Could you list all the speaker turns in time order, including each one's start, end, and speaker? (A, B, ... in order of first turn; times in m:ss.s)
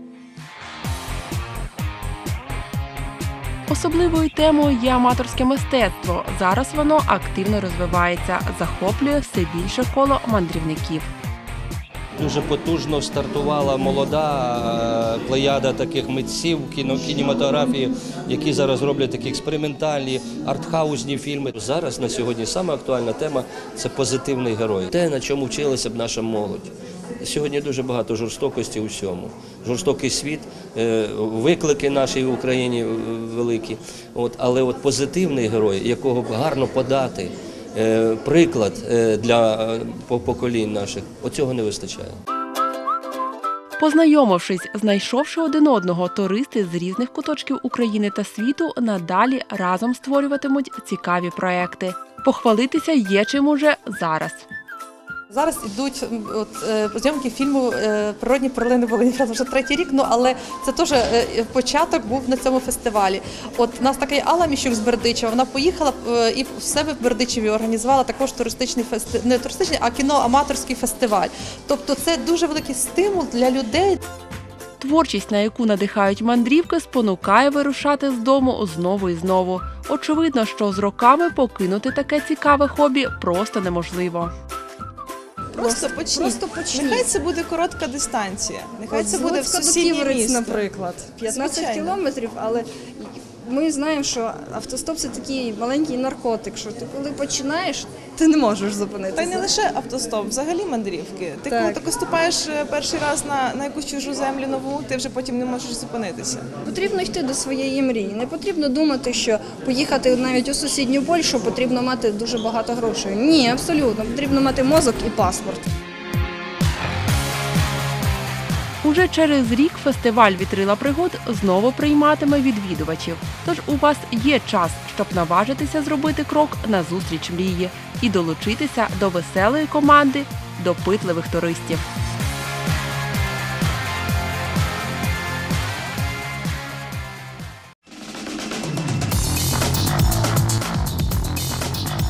0:03.7-0:11.1 A
0:12.2-0:42.2 B
0:43.8-0:54.4 A
0:55.3-1:14.0 C
1:14.8-1:24.3 A
1:25.5-1:27.1 D
1:25.5-1:30.7 E
1:28.9-1:39.5 D
1:31.2-1:32.0 E
1:39.1-1:46.5 E
1:41.5-1:41.8 D
1:46.6-1:55.7 D
1:58.8-2:11.9 A